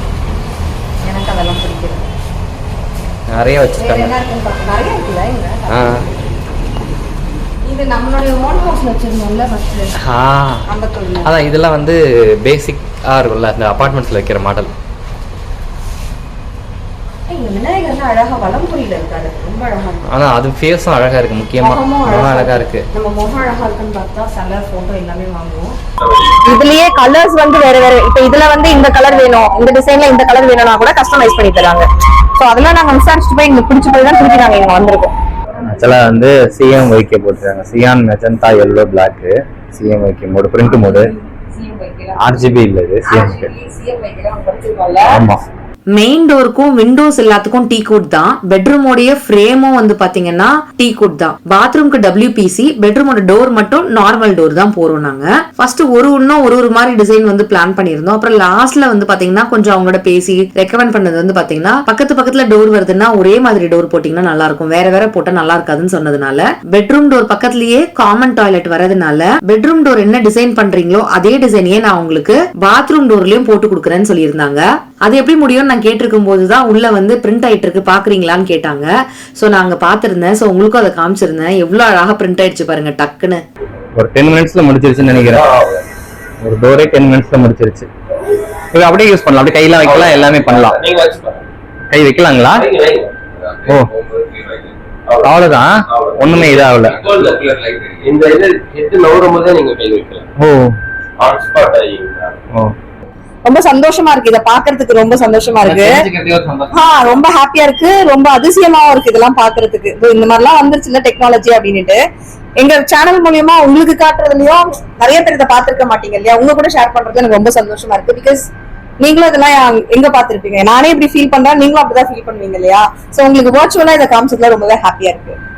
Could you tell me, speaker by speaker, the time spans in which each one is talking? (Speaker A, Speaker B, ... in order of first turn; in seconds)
Speaker A: 1.0-2.1, 3.7-6.2, 7.7-9.9, 10.7-11.3, 17.3-20.1, 21.6-25.8
Speaker B: 3.3-4.2, 5.7-6.0, 10.0-10.6, 11.2-14.7, 20.1-22.9, 35.6-41.1, 42.2-43.5, 45.0-45.4, 84.0-85.5, 86.4-87.9, 88.7-90.8, 91.9-92.7, 95.2-97.3, 100.4-100.8, 105.6-106.8
Speaker C: 26.4-35.1, 41.6-42.1, 43.1-45.1, 103.5-106.0, 106.7-112.0, 112.6-118.5, 119.0-125.4
Speaker D: 46.0-83.4
Speaker E: 85.1-85.8, 89.8-91.4, 92.5-100.2, 101.2-102.4